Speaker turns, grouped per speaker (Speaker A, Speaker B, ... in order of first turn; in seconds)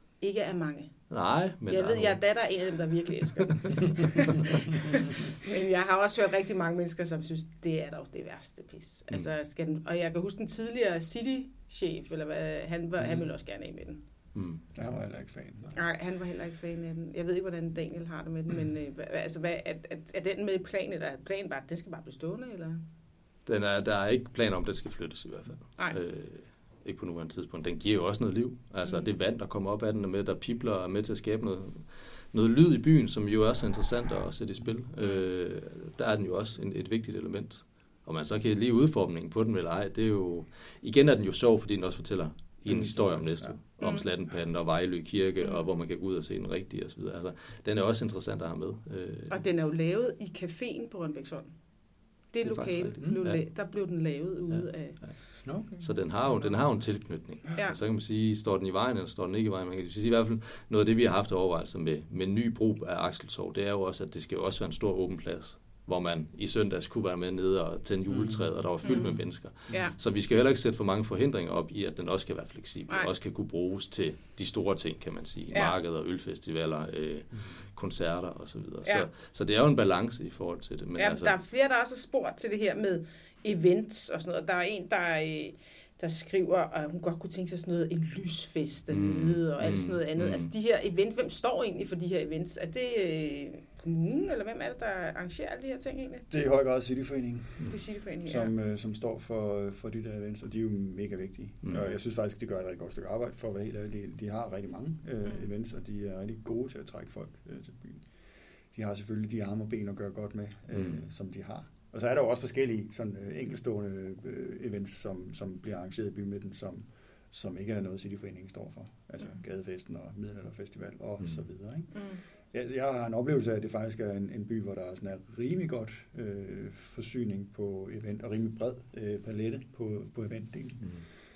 Speaker A: 0.2-0.9, 1.7-14.0, 15.7-22.8, 43.8-44.0, 49.3-51.5, 52.3-55.0, 68.8-69.9, 75.5-75.8, 81.0-96.3, 97.7-98.5, 121.9-122.2
Speaker B: 1.1-2.5, 3.4-3.8, 14.3-14.6, 23.4-49.4, 52.4-53.6, 54.5-81.4, 88.9-90.5, 110.7-111.0
Speaker C: 14.7-15.8, 42.7-43.6, 55.4-56.9, 69.0-69.9, 96.3-108.0, 108.7-130.9